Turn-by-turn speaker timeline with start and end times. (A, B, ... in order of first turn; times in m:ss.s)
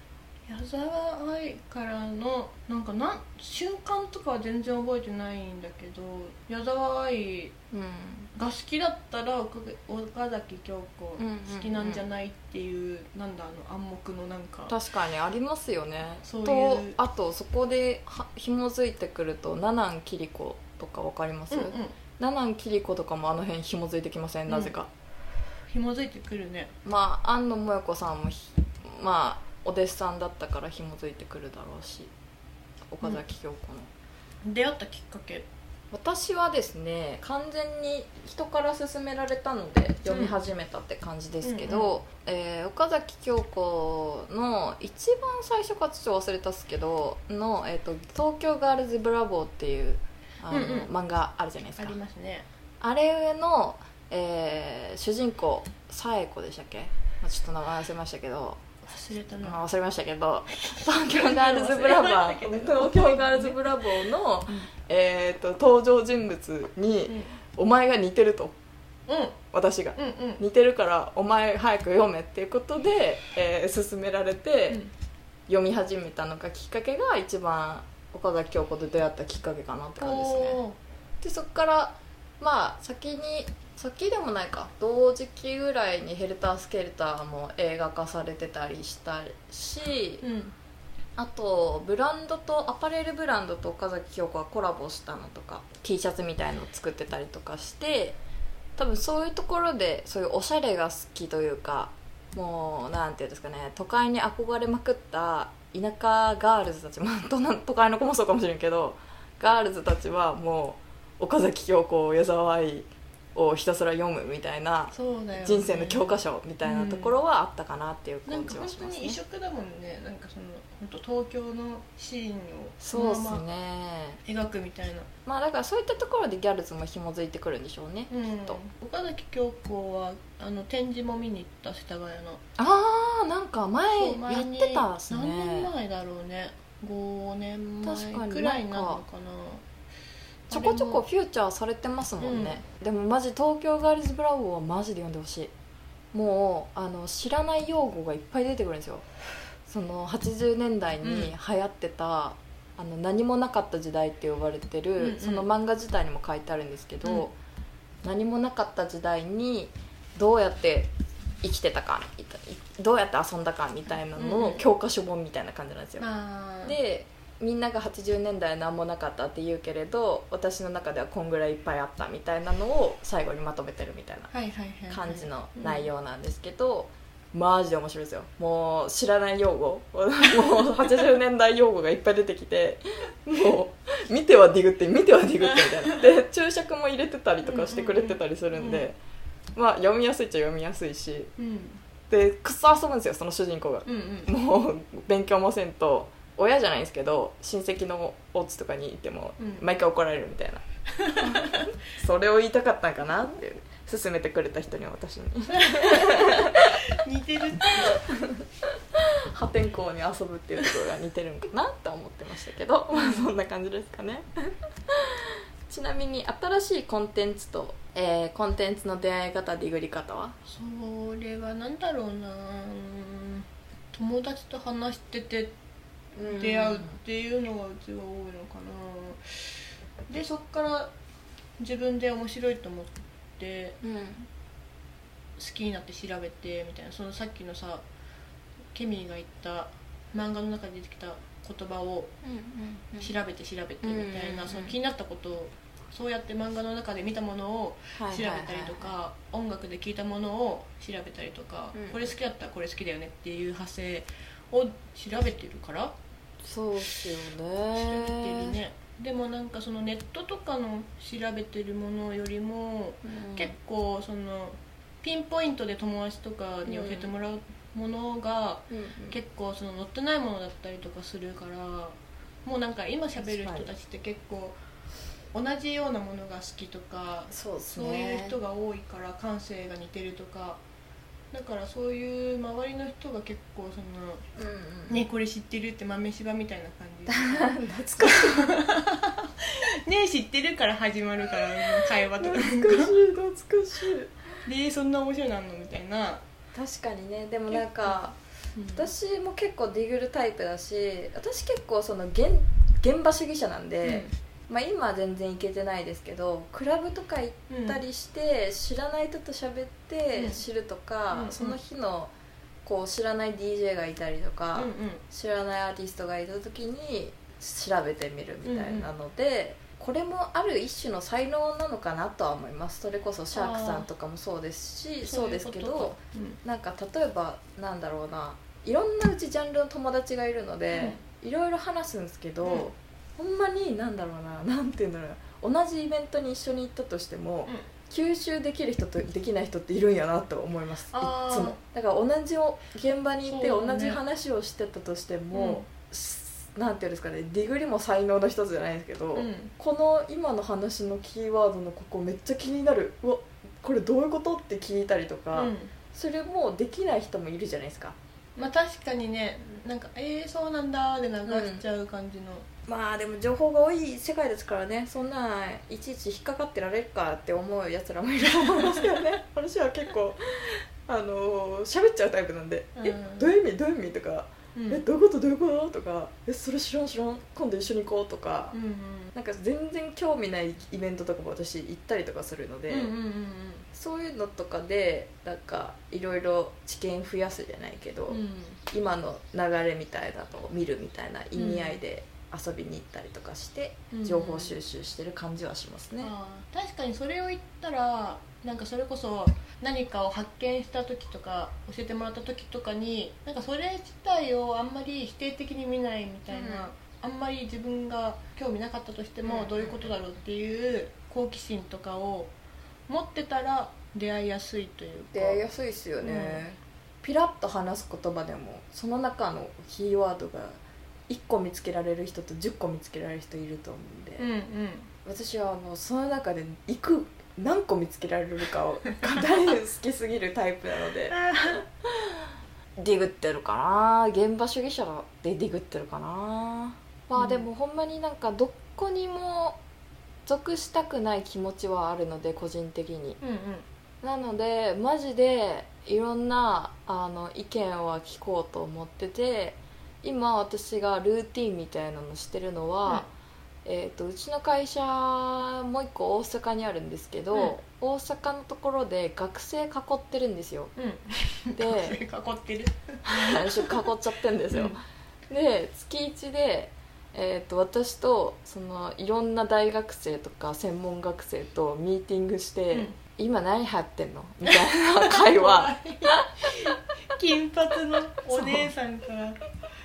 0:00.5-0:07.5 A
0:07.7-0:08.3 B
0:08.3-0:14.7 A
0:11.2-0:12.0 B
0:14.7-0:24.9 B
0:16.2-0:17.0 A
0:21.5-0:21.9 A
0:25.7-0:26.7 A
0:26.8-0:32.1 B
0:32.9-0:33.9 B
0:34.4-0:35.5 A
0:35.9-0:52.0 B
0:40.0-0:40.3 A
0:41.4-0:41.9 A
0:50.5-0:50.9 A
0:51.8-0:52.4 A
0:52.8-0:58.6 B
0:58.8-0:59.6 A
0:59.4-1:08.5 B
1:00.7-1:03.6 A
1:09.1-1:09.4 A
1:09.5-1:14.8 B
1:10.0-1:10.4 A
1:15.5-1:20.6 B
1:20.0-1:20.8 A
1:21.2-1:30.2 B
1:30.2-1:30.5 A
1:31.2-1:38.2 B
1:38.8-1:59.2 B
1:54.9-1:57.2 A
1:58.2-2:03.4 A
2:02.8-2:04.2 B
2:04.2-2:05.1 A
2:05.2-2:08.6 B
2:08.1-2:12.4 A
2:12.6-2:15.7 B
2:13.9-2:19.6 A
2:17.8-2:19.0 B
2:20.5-2:21.0 A
2:20.5-2:25.5 B
2:22.2-2:22.6 A
2:26.1-2:29.0 B
2:29.6-2:37.3 B
2:31.0-2:31.3 A
2:35.0-2:35.4 A
2:37.0-2:37.3 A
2:38.0-2:46.1 B
2:44.2-2:44.6 A
2:46.0-2:46.8 A
2:46.6-2:54.3 B
2:54.3-2:55.9 A
2:54.9-3:09.0 B
3:07.4-3:08.9 A
3:09.5-3:11.3 B
3:11.4-3:11.8 A
3:12.1-3:20.6 B
3:13.8-3:14.3 A
3:19.4-3:19.6 A
3:20.9-3:21.7 A
3:21.2-3:26.8 B
3:25.5-3:28.0 A
3:27.7-3:40.4 B
3:32.9-3:33.2 A
3:40.4-3:45.5 A
3:46.2-3:47.0 B
3:46.3-3:49.5 A
3:50.1-3:50.9 A
3:51.6-3:53.8 A
3:53.8-3:54.3 B
3:55.4-3:57.8 A
3:58.7-4:02.1 A
4:02.2-4:03.1 B
4:03.0-4:15.9 A
4:03.8-4:04.7 B
4:08.0-4:08.9 B
4:11.7-4:12.1 B
4:16.4-4:18.6 B
4:17.7-4:34.6 A
4:23.0-4:23.5 B
4:26.6-4:27.1 B
4:28.7-4:29.2 B
4:33.2-4:33.7 B
4:35.3-4:40.6 A
4:37.3-4:38.4 B
4:41.3-4:44.2 A
4:44.4-4:45.0 B
4:44.9-4:53.0 A
4:47.1-4:48.6 B
4:52.2-4:54.1 B
4:54.4-4:56.2 A
4:56.5-4:58.2 B
4:57.5-4:58.0 A
4:58.5-4:58.9 A
4:58.7-5:12.1 B
5:03.8-5:04.1 A
5:07.5-5:07.8 A
5:10.1-5:10.4 A
5:11.1-5:11.6 A
5:12.6-5:58.0 B
5:14.5-5:15.0 A
5:18.4-5:18.9 A
5:23.3-5:23.8 A
5:25.0-5:26.4 A
5:30.7-5:31.0 A
5:32.4-5:32.7 A
5:40.9-5:41.6 A
5:43.2-5:44.0 A
5:45.3-5:45.6 A
5:49.1-5:49.5 A
5:55.3-5:55.7 A
5:58.4-6:02.5 A
6:01.2-6:01.6 B
6:02.6-6:18.5 B
6:12.8-6:13.3 A
6:14.5-6:14.8 A
6:18.5-6:19.1 A
6:19.1-6:22.9 B
6:22.7-6:23.7 A
6:23.7-6:36.1 B
6:28.1-6:28.6 A
6:31.4-6:31.8 A
6:33.9-6:34.6 A
6:36.0-6:52.3 A
6:46.3-6:46.6 B
6:49.2-6:49.9 B
6:52.9-6:55.5 A
6:55.1-7:04.2 B
6:56.0-6:56.4 A
7:04.2-7:04.9 A
7:05.0-7:11.2 B
7:11.1-7:11.6 A
7:11.8-7:12.2 B
7:12.8-7:19.6 B
7:17.2-7:17.4 A
7:20.2-7:23.2 B
7:23.2-7:23.6 A
7:24.0-7:33.1 B
7:33.6-7:40.7 B
7:40.8-7:43.8 A
7:41.5-7:42.0 B
7:43.0-7:44.8 B
7:44.5-7:44.8 A
7:45.3-7:56.2 B
7:52.7-7:53.0 A
7:54.5-7:59.4 A
7:58.3-7:58.7 B